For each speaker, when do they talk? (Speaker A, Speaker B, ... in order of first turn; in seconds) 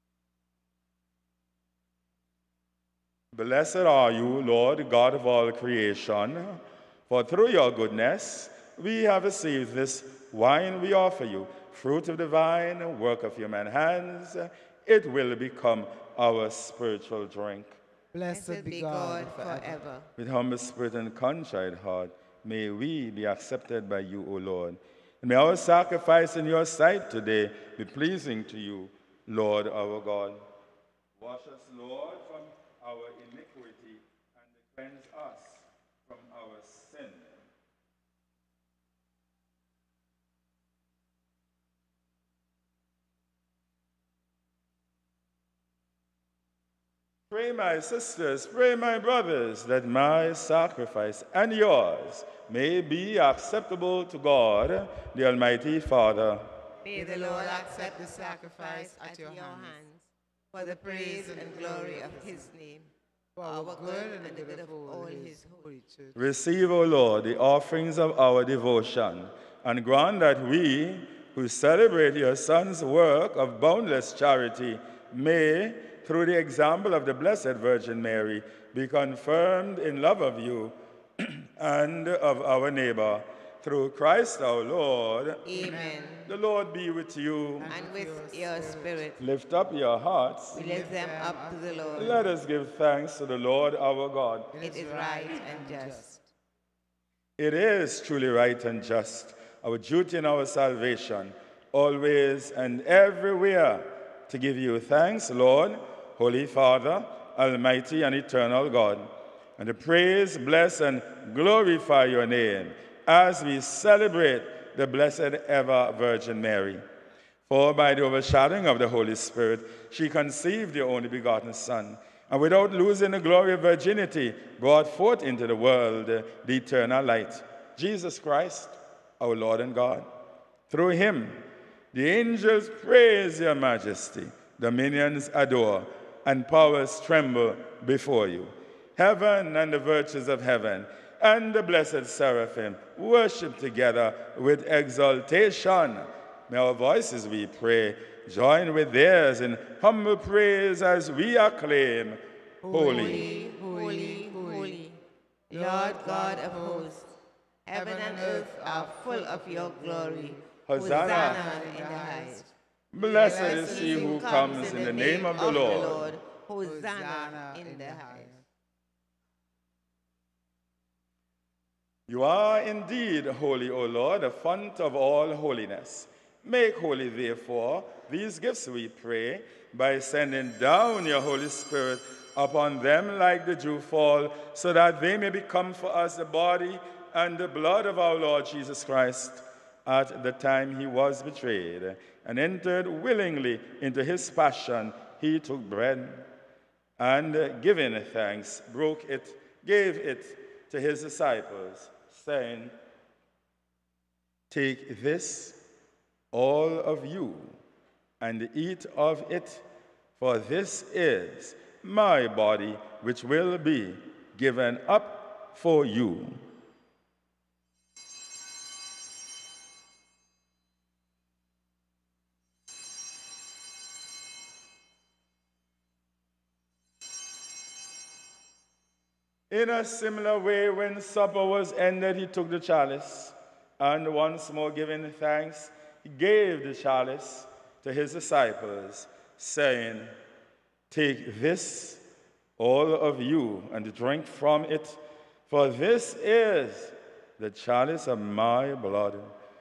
Speaker A: 3.3-17.8, 20.2-30.4, 31.2-37.5, 47.3-56.5, 66.2-87.7, 89.2-90.6, 92.0-94.5, 97.4-116.8, 117.5-130.1, 130.7-153.3, 160.7-161.6, 162.9-166.2, 172.1-196.3, 197.0-202.7, 204.5-205.6, 206.3-207.6, 208.2-209.6, 210.2-216.5, 229.5-240.1, 240.9-242.0, 242.6-249.3
Speaker B: 18.1-19.8, 56.9-59.8, 60.5-62.5, 63.4-66.2, 85.5-86.1, 87.6-89.1, 90.5-92.3, 94.5-96.3, 152.6-154.8, 155.5-156.9, 157.7-168.4
Speaker C: 18.3-20.1, 56.8-62.9, 63.4-65.7, 85.5-86.3, 87.7-89.2, 90.5-92.2, 94.6-96.0, 152.8-155.0, 155.5-157.1, 157.7-162.5, 163.0-168.4